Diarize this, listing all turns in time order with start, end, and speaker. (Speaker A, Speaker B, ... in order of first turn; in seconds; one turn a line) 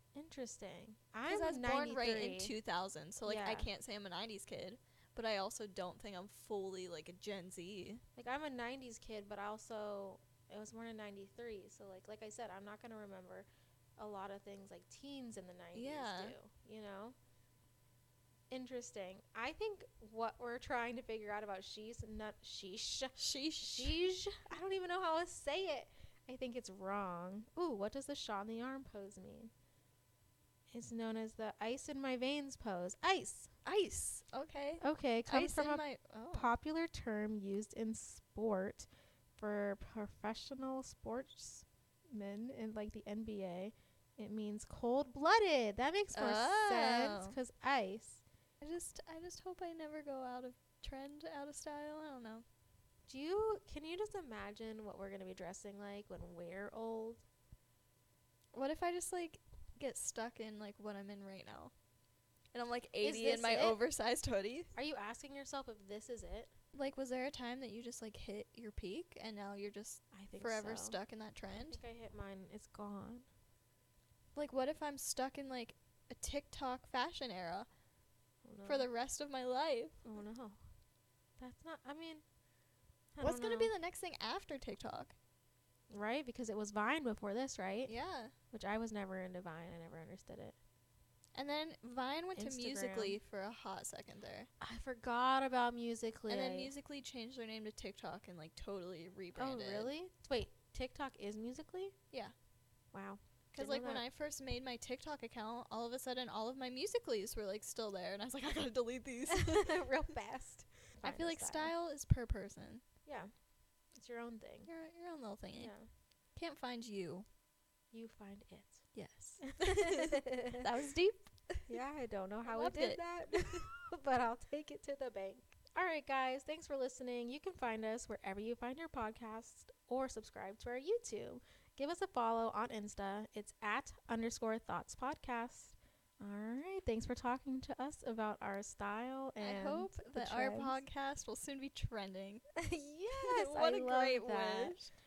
Speaker A: 0.1-2.5
Speaker B: 1.3-8.0
Speaker A: 3.2-3.7
Speaker A: 8.2-17.1
Speaker B: 15.7-16.3
Speaker A: 18.5-29.5
Speaker B: 23.1-23.9
Speaker A: 30.7-33.5
Speaker B: 33.6-36.5
Speaker A: 34.8-38.9
Speaker A: 39.4-48.2
Speaker B: 46.1-47.4
Speaker B: 48.6-52.4
Speaker A: 53.1-57.2
Speaker B: 58.5-61.7
Speaker B: 62.5-64.7
Speaker A: 63.0-63.8
Speaker A: 64.7-66.5
Speaker B: 66.7-71.8
Speaker A: 70.1-71.0
Speaker A: 71.7-73.3
Speaker B: 74.3-77.7
Speaker A: 78.4-78.9
Speaker B: 78.6-80.0
Speaker A: 80.0-80.6
Speaker A: 81.4-82.2
Speaker A: 83.2-83.7
Speaker B: 83.2-85.1
Speaker A: 85.9-87.9
Speaker B: 87.9-88.3
Speaker A: 88.5-90.6
Speaker B: 91.3-94.5
Speaker A: 92.3-93.2
Speaker A: 94.6-96.7
Speaker B: 96.3-99.9
Speaker A: 99.3-101.9
Speaker A: 102.9-104.0
Speaker B: 103.5-109.8
Speaker A: 109.3-111.7
Speaker B: 111.0-112.8
Speaker A: 113.9-114.7
Speaker B: 114.7-115.7
Speaker A: 115.5-115.9
Speaker B: 116.3-117.2
Speaker A: 117.9-118.8
Speaker B: 118.9-121.7
Speaker A: 119.4-120.7
Speaker A: 121.7-140.8
Speaker B: 122.4-123.0
Speaker B: 139.4-142.4
Speaker A: 142.6-144.8
Speaker B: 143.2-144.9